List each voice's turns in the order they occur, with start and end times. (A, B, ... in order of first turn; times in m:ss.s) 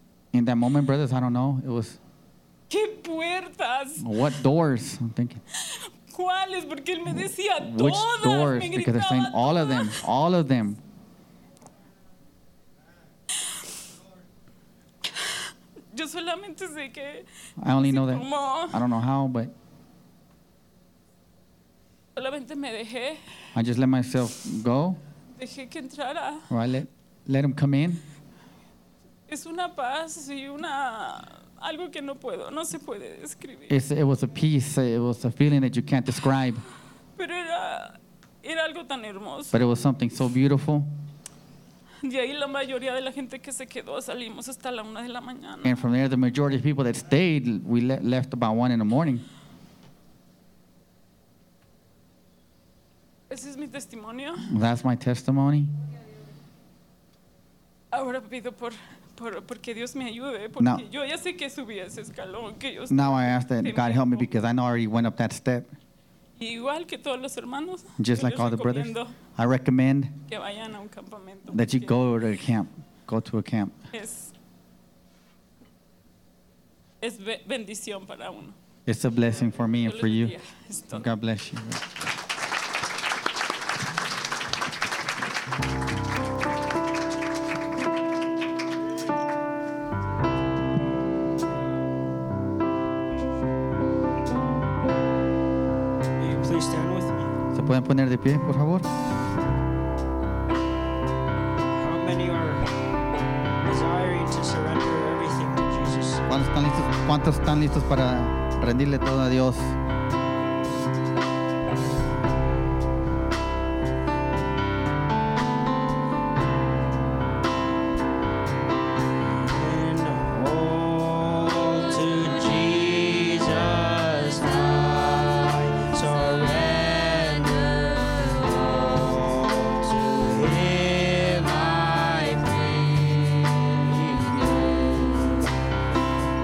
0:00.3-0:02.0 A
0:02.7-0:04.1 B
0:04.0-0:05.4 A
0:05.6-0:10.0 B
0:07.1-0:10.8 A
0:15.1-0:18.8 B
0:17.6-0:19.5 A
0:22.2-0:23.2 B
0:23.6-0:25.0 A
0:25.4-0:26.5 B
0:26.5-0:28.0 A
0:29.3-0:33.8 B
0:33.7-0:36.6 A
0:37.2-0:39.6 B
0:39.5-0:40.9 A
0:42.0-0:45.8 B
0:45.6-0:49.2 A
0:53.3-0:54.5 B
0:54.4-0:55.7 A
0:57.9-1:04.3 B
1:00.6-1:00.8 A
1:02.9-1:05.7 A
1:06.4-1:09.1 B
1:08.0-1:10.2 A
1:10.3-1:11.9 B
1:11.5-1:13.8 A
1:13.9-1:14.3 B
1:17.0-1:18.6 B
1:18.9-1:20.4 A
1:19.9-1:21.1 B
1:20.9-1:21.8 A
1:36.2-1:37.3 C
1:37.5-1:38.9 A
1:41.8-1:42.6 C
1:43.6-1:46.2 C
1:46.3-1:49.8 A
1:59.4-2:15.5 C